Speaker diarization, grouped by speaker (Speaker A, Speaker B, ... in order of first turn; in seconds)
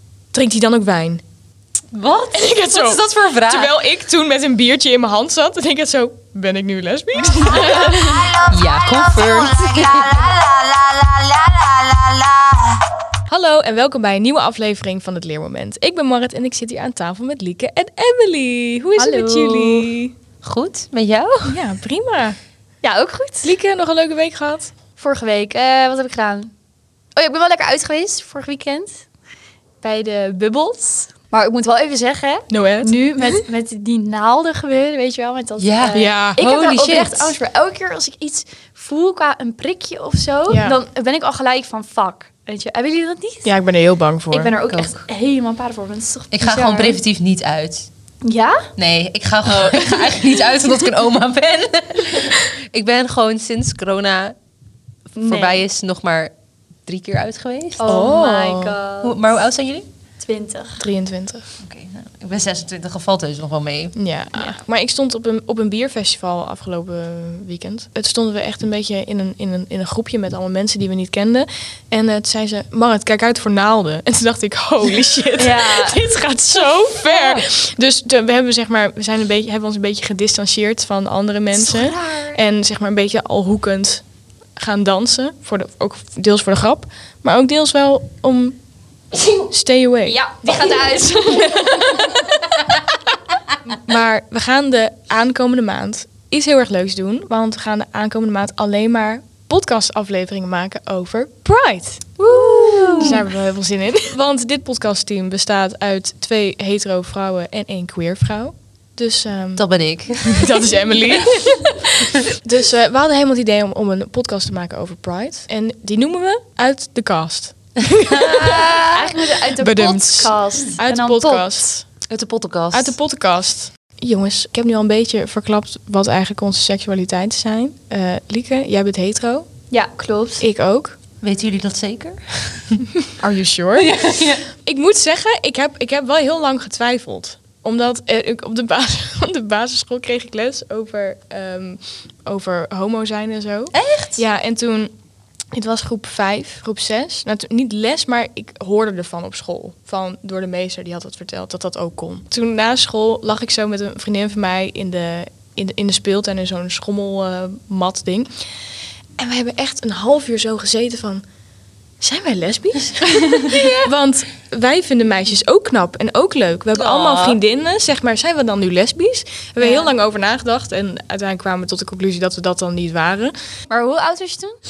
Speaker A: 0.3-1.2, 2.3-8.3, 13.3-20.1, 21.4-22.4, 23.4-24.7, 32.5-33.5, 35.9-36.4, 40.5-40.8, 43.5-44.5, 57.9-58.8, 60.8-61.5, 64.0-84.0, 84.6-88.6, 89.5-90.2, 93.8-102.1, 103.0-118.7, 119.6-121.9, 122.7-129.5, 130.4-130.9, 133.2-133.9, 134.5-144.9, 145.5-158.3, 159.2-161.2, 162.0-173.3
Speaker B: 1.9-3.7, 8.4-12.8, 20.4-21.6, 35.6-37.4, 44.7-45.1, 46.3-47.9, 48.8-54.4, 55.1-56.3, 56.9-58.0, 59.0-59.9, 61.6-64.0, 81.7-82.3, 102.2-103.2, 109.6-110.5, 118.0-119.2, 122.1-123.0, 131.2-132.8, 133.8-134.4, 143.7-144.2, 163.5-163.9, 166.8-167.4
Speaker C: 7.4-8.5, 19.0-19.9, 22.8-23.5, 25.0-26.5, 27.1-29.1, 29.8-43.5, 44.3-47.0, 48.2-48.7, 49.5-50.8, 55.2-55.6, 57.8-59.2, 60.2-60.9, 75.4-76.1, 81.8-82.2, 90.0-92.5, 102.2-103.1, 118.5-121.7, 129.7-130.4, 169.6-169.9, 173.7-174.6